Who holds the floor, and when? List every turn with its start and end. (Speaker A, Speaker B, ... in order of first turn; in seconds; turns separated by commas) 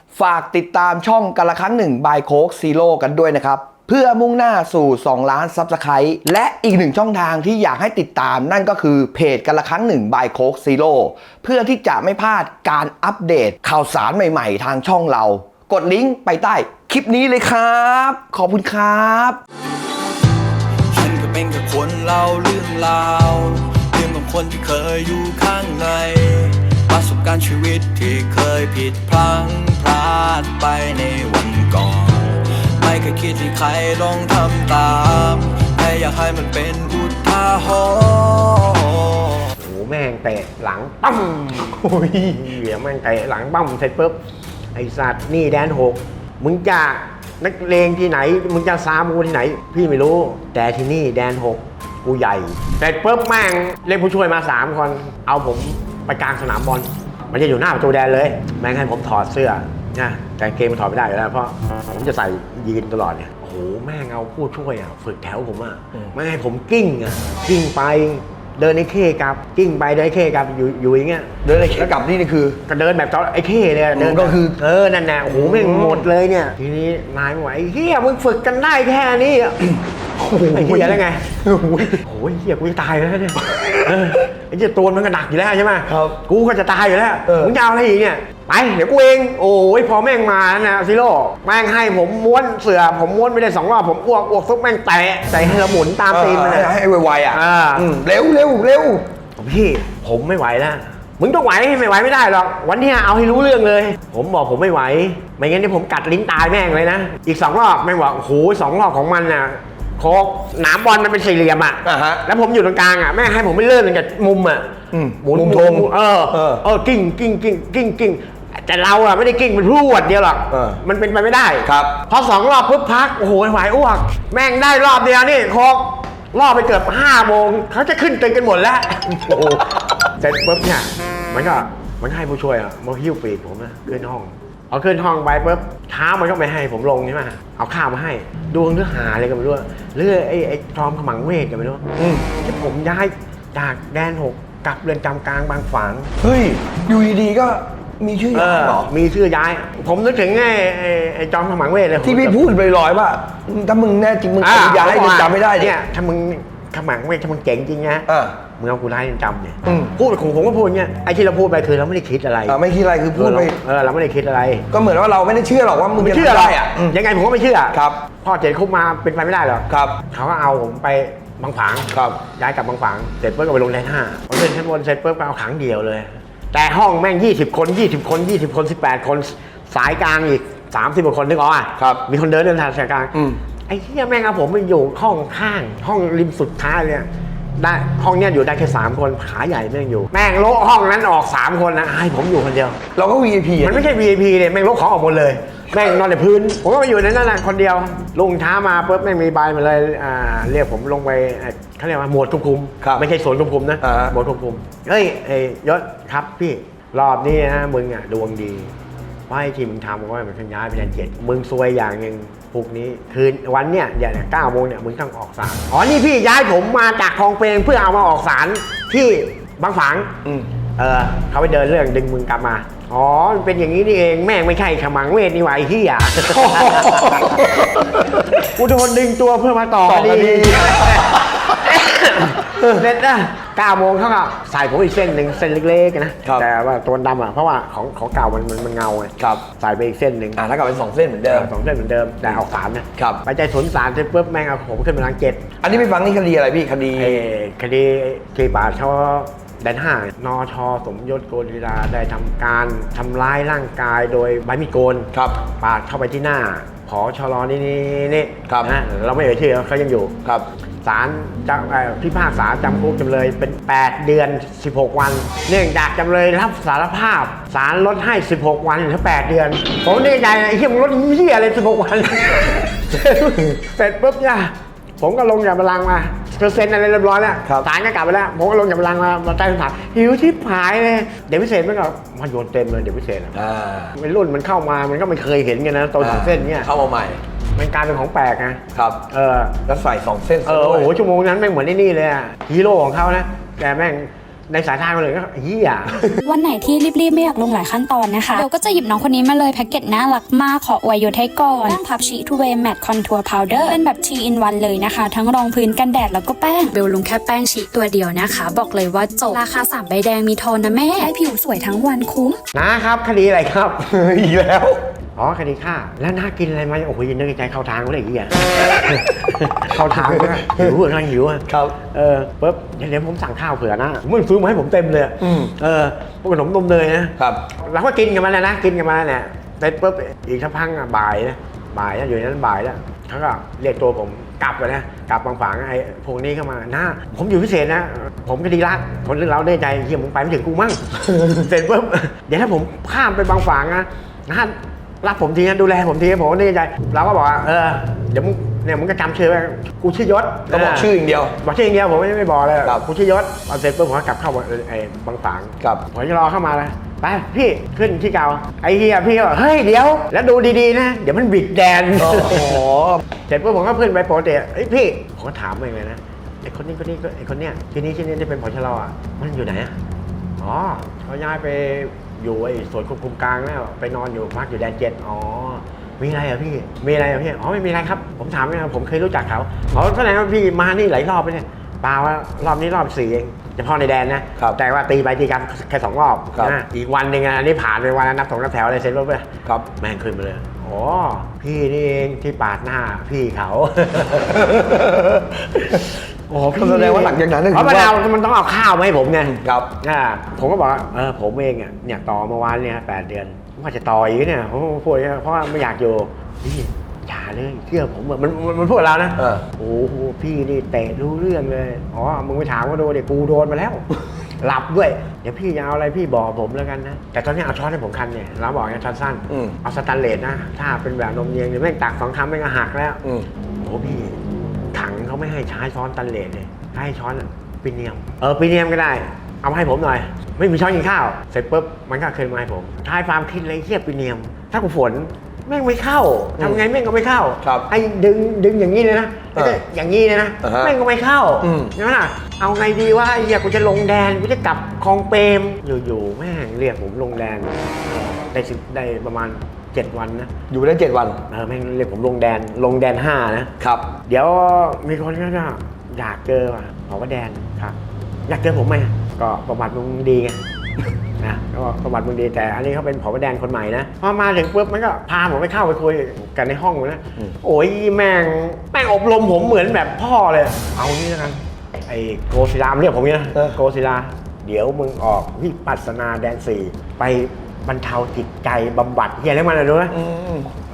Speaker A: 0.1-19.4, Speaker B: 20.9-39.5, Speaker C: 39.6-44.2, Speaker A: 41.8-42.5, Speaker C: 44.8-71.9, Speaker A: 71.4-72.6, Speaker C: 72.7-79.7, Speaker A: 74.0-74.6, Speaker A: 75.3-76.1, Speaker A: 80.2-82.0, Speaker C: 80.5-81.3, Speaker C: 81.8-96.7, Speaker A: 83.4-84.0, Speaker A: 85.9-86.2, Speaker A: 87.3-87.5, Speaker A: 96.1-99.1, Speaker C: 97.3-97.9, Speaker C: 99.4-146.1, Speaker A: 111.8-112.2, Speaker A: 114.9-116.6, Speaker A: 120.5-120.8, Speaker A: 121.7-122.0, Speaker A: 129.3-129.8, Speaker A: 142.0-142.3, Speaker A: 146.2-148.9, Speaker C: 148.3-152.4, Speaker A: 152.0-155.7, Speaker C: 154.4-162.6, Speaker A: 158.1-158.4, Speaker A: 159.7-159.9, Speaker A: 162.5-163.6, Speaker C: 163.1-164.7, Speaker A: 164.7-167.0, Speaker C: 166.0-183.2, Speaker A: 167.7-168.0, Speaker A: 169.7-170.0, Speaker A: 171.9-172.2, Speaker A: 181.8-182.0, Speaker A: 183.1-183.4, Speaker C: 183.7-187.1, Speaker C: 187.6-192.8, Speaker A: 192.9-193.9, Speaker C: 193.6-208.7, Speaker A: 203.8-204.1, Speaker C: 209.3-220.2, Speaker C: 220.8-227.5, Speaker A: 226.3-228.3, Speaker C: 228.4-240.4, Speaker A: 229.8-231.6, Speaker A: 232.4-232.8, Speaker A: 239.2-239.4, Speaker A: 240.3-241.5, Speaker C: 241.3-245.5, Speaker A: 243.0-243.2, Speaker A: 245.6-247.2, Speaker C: 247.0-260.1, Speaker A: 255.1-255.4, Speaker A: 258.5-258.7, Speaker C: 260.8-283.4, Speaker A: 283.3-283.9, Speaker C: 283.9-286.7, Speaker A: 286.0-287.2, Speaker C: 287.6-289.6, Speaker A: 288.7-289.0, Speaker A: 289.7-290.9, Speaker C: 290.5-296.0, Speaker A: 295.9-296.2, Speaker D: 296.2-312.4, Speaker C: 312.5-313.9, Speaker A: 313.9-314.8, Speaker C: 315.2-362.6, Speaker A: 319.7-320.8, Speaker A: 321.5-321.8, Speaker A: 325.2-325.5, Speaker A: 341.0-341.4, Speaker A: 350.5-351.4, Speaker A: 362.0-363.0, Speaker C: 363.3-369.8, Speaker C: 370.4-394.9, Speaker A: 394.2-395.8, Speaker C: 395.5-413.9, Speaker A: 396.3-398.0, Speaker A: 399.2-399.7, Speaker A: 409.2-409.4, Speaker C: 414.4-423.0, Speaker A: 419.3-419.6, Speaker C: 423.6-424.2, Speaker C: 424.7-450.3, Speaker A: 436.4-436.6, Speaker A: 437.4-437.7, Speaker A: 439.4-439.6, Speaker A: 440.4-440.8, Speaker A: 441.4-441.8, Speaker A: 450.5-451.2, Speaker C: 451.3-453.5, Speaker A: 453.6-453.9, Speaker C: 454.1-457.8, Speaker C: 458.3-460.4, Speaker C: 461.2-479.9, Speaker A: 479.9-480.5